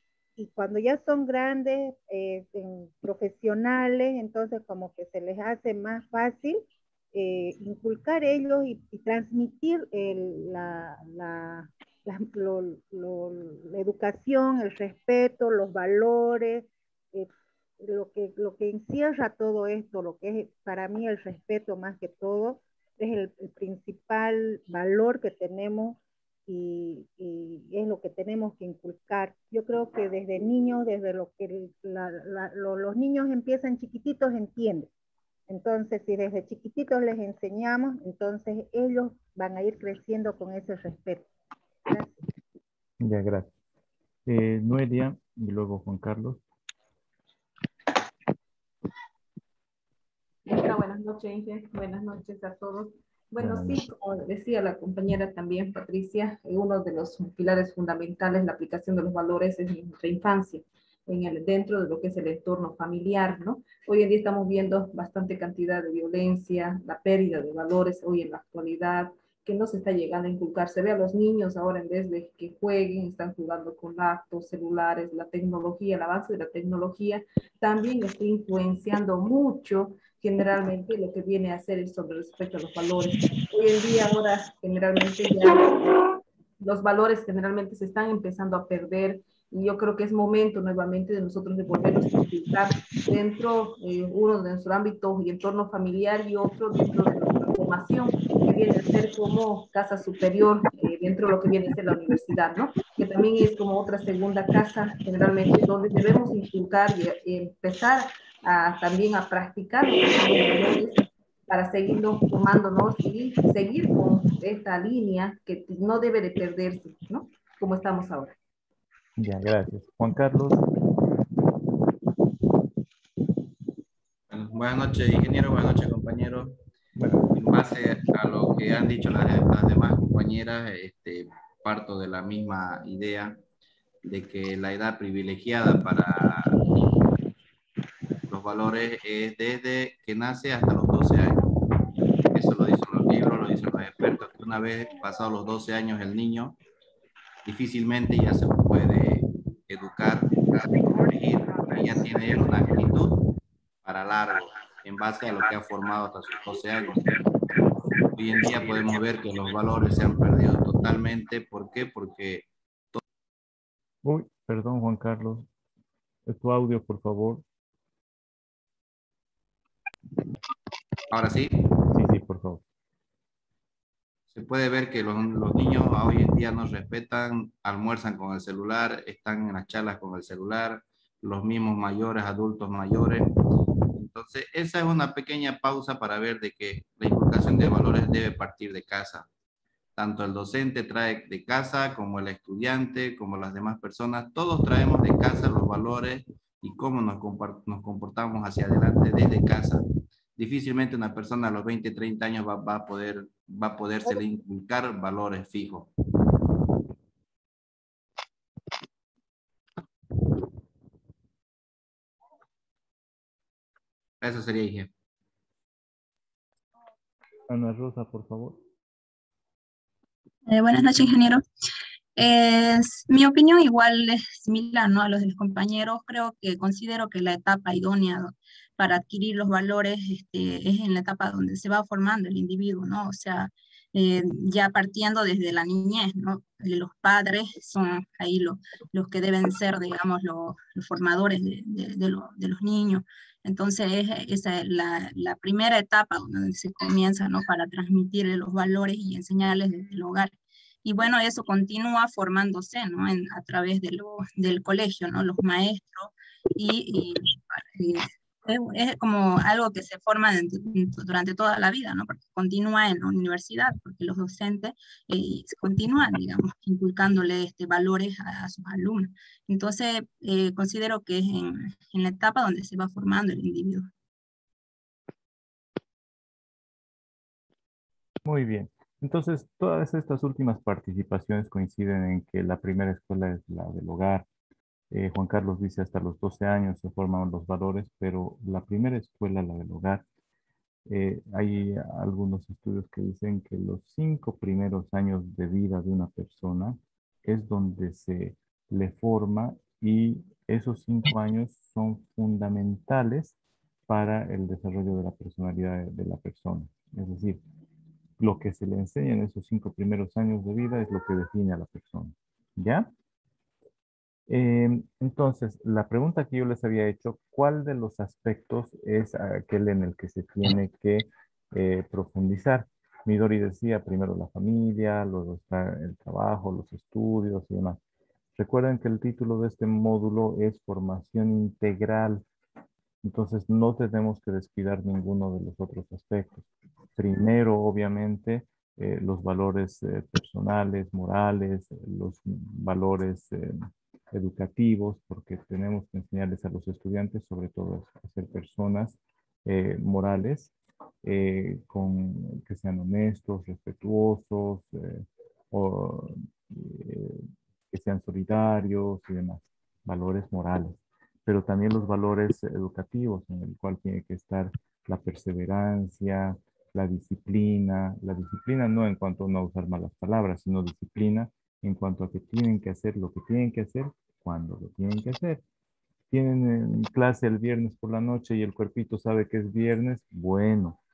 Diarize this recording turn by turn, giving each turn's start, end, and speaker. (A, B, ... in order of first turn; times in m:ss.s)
0:00.4-0:06.6 A
0:07.1-0:17.3 A
0:17.8-0:34.9 A
0:35.5-0:41.3 A
0:41.9-0:42.2 A
0:43.0-0:43.5 B
0:44.3-0:46.4 B
0:50.5-1:26.1 C
0:53.4-0:53.9 B
1:26.6-1:58.4 C
1:59.2-2:00.6 B
2:04.3-2:06.6 D
2:07.0-2:07.3 B
2:07.3-2:13.4 D
2:14.0-2:16.8 D
2:18.3-2:21.5 D
2:22.3-2:26.6 D
2:27.5-2:33.2 D
2:33.8-2:37.1 D
2:38.2-2:43.0 D
2:44.0-2:45.5 B
2:46.3-2:47.4 B
2:51.1-2:51.7 D
2:51.9-2:52.6 B
2:54.3-3:03.3 D
3:04.0-3:09.3 D
3:10.0-3:19.8 D
3:20.4-3:25.9 D
3:34.2-3:34.9 D
3:37.5-3:38.6 B
3:40.5-3:41.4 E
3:42.2-4:10.3 E
4:10.8-4:33.9 E
4:38.2-4:44.3 B
4:44.9-4:50.0 B
4:50.9-5:03.4 B
5:03.9-5:07.4 B
5:08.2-5:12.9 B
5:14.3-5:27.8 B
5:28.4-5:32.2 B
5:33.0-5:43.6 B
5:44.1-5:50.5 B
5:51.0-6:15.4 B
6:16.1-6:20.8 B